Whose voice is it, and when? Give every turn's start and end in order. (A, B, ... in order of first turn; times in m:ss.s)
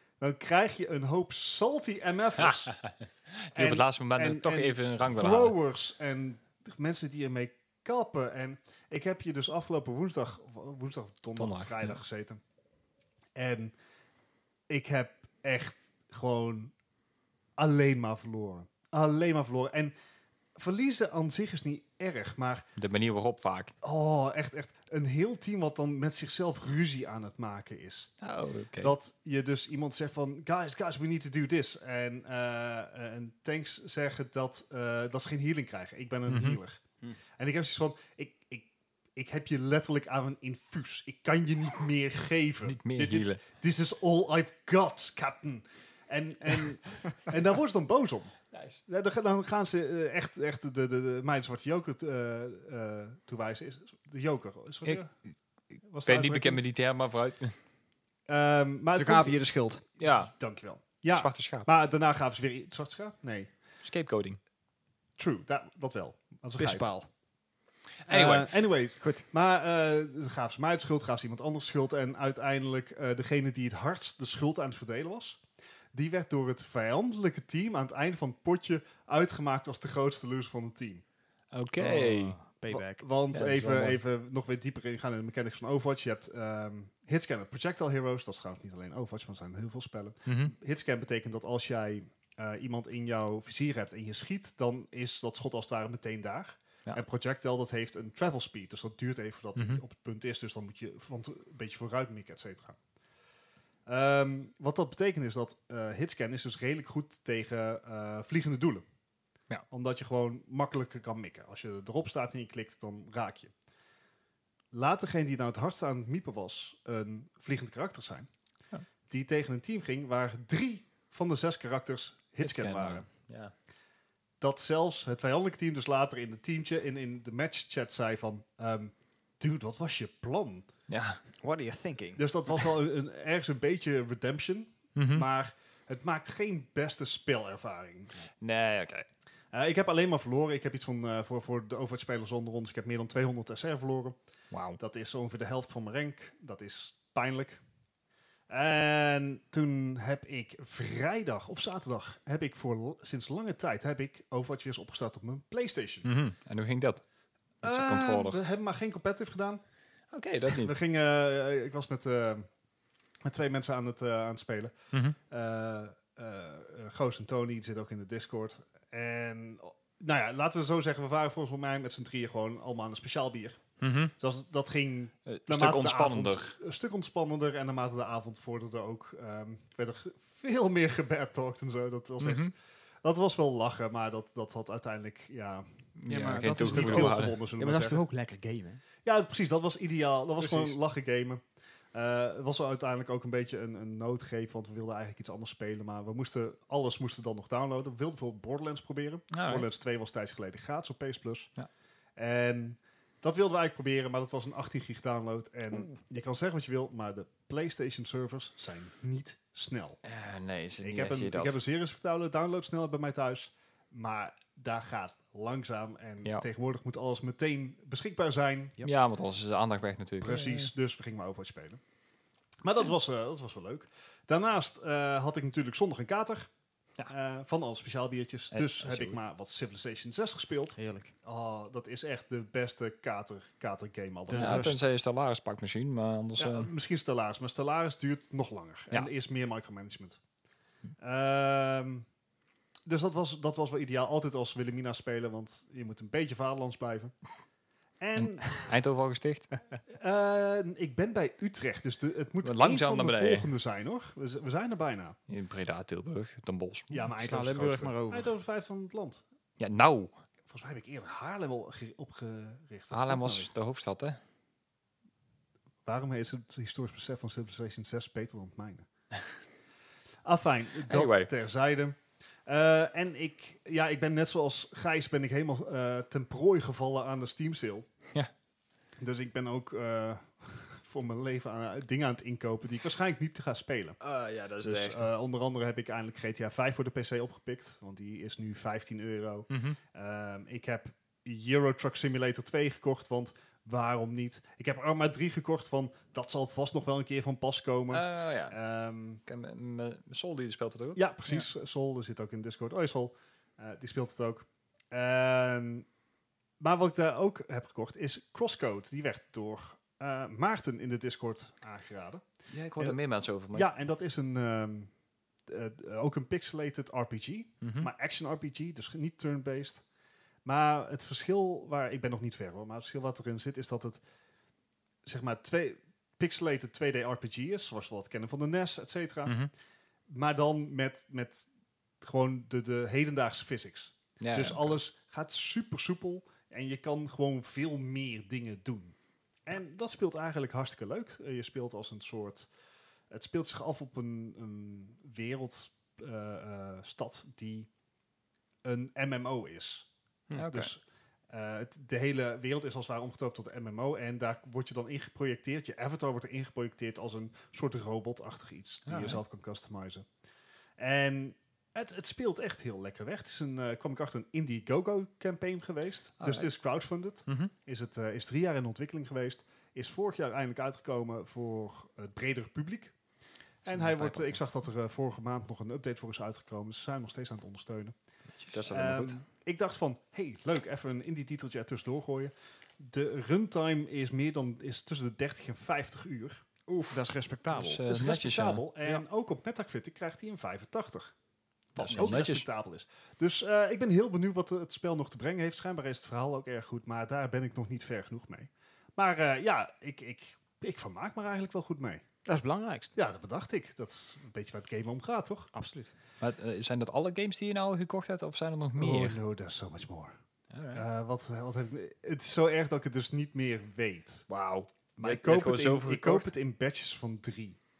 0:00.2-0:02.8 A
0:02.6-0:05.5 B
0:03.5-0:12.4 A
0:11.4-0:12.0 B
0:13.4-0:13.7 A
0:14.7-0:16.7 A
0:17.6-0:19.9 A
0:20.6-0:22.6 A
0:22.8-0:23.7 B
0:23.8-0:28.1 A
0:28.2-0:28.9 B
0:28.8-0:36.8 A
0:36.3-0:36.6 B
0:37.4-0:48.3 A
0:42.6-0:43.4 B
0:48.5-0:48.8 B
0:48.8-0:55.1 A
0:55.9-0:56.6 A
0:56.0-0:57.5 B
0:58.3-0:59.4 A
0:58.9-0:59.8 C
1:00.0-1:00.3 B
1:00.0-1:03.5 A
1:01.1-1:01.7 B
1:03.8-1:04.4 B
1:05.2-1:06.9 A
1:06.6-1:07.1 C
1:08.1-1:08.5 B
1:08.1-1:15.4 A
1:15.9-1:21.0 A
1:21.5-1:22.4 B
1:21.8-1:23.0 C
1:22.7-1:42.8 A
1:23.3-1:24.0 B
1:30.3-1:30.5 B
1:39.6-1:39.8 B
1:43.8-1:48.8 A
1:49.7-1:53.5 A
1:54.7-1:58.3 A
1:59.1-2:03.0 A
2:02.4-2:03.5 B
2:04.4-2:10.7 A
2:10.9-2:11.2 B
2:11.4-2:12.7 C
2:12.2-2:18.1 A
2:15.0-2:15.2 B
2:18.4-2:19.0 B
2:19.5-2:24.2 A
2:24.5-2:24.8 B
2:24.8-2:27.6 A
2:28.5-2:36.1 A
2:36.0-2:37.0 B
2:37.6-2:38.4 B
2:37.6-2:39.6 A
2:40.1-2:40.7 B
2:40.5-2:42.5 A
2:43.2-2:44.7 A
2:44.9-2:45.2 B
2:45.3-2:53.7 A
2:53.8-2:54.1 B
2:54.2-3:02.5 A
2:55.3-2:56.5 B
3:02.2-3:02.5 B
3:03.0-3:05.6 A
3:06.0-3:07.4 B
3:06.1-3:08.8 C
3:06.6-3:08.0 A
3:09.0-3:21.5 A
3:10.4-3:10.7 C
3:19.3-3:19.7 B
3:22.2-3:30.0 A
3:30.0-3:31.6 B
3:30.8-3:38.8 A
3:38.8-3:40.7 B
3:40.2-3:41.8 A
3:42.6-3:46.5 A
3:47.1-3:54.8 A
3:48.5-3:49.2 B
3:50.8-3:51.1 C
3:54.3-3:54.9 C
3:54.3-3:56.7 B
3:56.4-4:00.2 A
4:01.0-4:02.0 A
4:02.8-4:07.1 A
4:08.0-4:08.6 A
4:08.2-4:09.5 B
4:09.9-4:15.2 A
4:12.4-4:13.5 B
4:15.3-4:17.1 B
4:16.9-4:19.2 A
4:17.2-4:18.3 C
4:19.6-4:20.1 B
4:20.5-4:23.5 A
4:22.9-4:24.2 B
4:25.8-4:28.9 A
4:30.2-4:37.9 A
4:30.8-4:31.3 B
4:39.0-4:44.0 A
4:44.0-4:45.1 B
4:44.6-4:59.2 A
4:49.5-4:49.8 B
4:57.9-4:58.6 B
4:59.3-5:01.0 B
5:01.0-5:05.9 A
5:06.6-5:12.2 A
5:12.5-5:13.7 B
5:13.5-5:14.9 A
5:15.5-5:19.8 A
5:17.6-5:17.9 B
5:20.4-5:24.0 A
5:25.0-5:29.4 A
5:29.2-5:29.5 B
5:30.1-5:31.5 A
5:32.0-5:42.5 A
5:34.2-5:34.7 B
5:43.1-5:47.7 A
5:48.6-6:00.1 A
5:50.3-5:50.7 B
5:58.8-5:59.2 B
6:00.8-6:12.9 A
6:06.2-6:06.5 B
6:07.3-6:07.5 B
6:13.6-6:17.9 A
6:13.7-6:14.4 B
6:18.5-6:19.2 B
6:18.7-6:26.4 A
6:26.7-6:27.0 B
6:26.9-6:27.8 C
6:27.5-6:28.6 B
6:27.8-6:31.1 A
6:31.8-6:32.4 B
6:31.8-6:42.0 A
6:31.9-6:32.2 C
6:42.2-6:42.9 C
6:42.9-6:45.5 A
6:45.5-6:45.9 C
6:46.2-6:49.2 B
6:48.8-6:50.1 A
6:50.5-6:50.8 B
6:50.7-6:54.3 A
6:54.3-6:56.3 B
6:55.0-6:57.6 A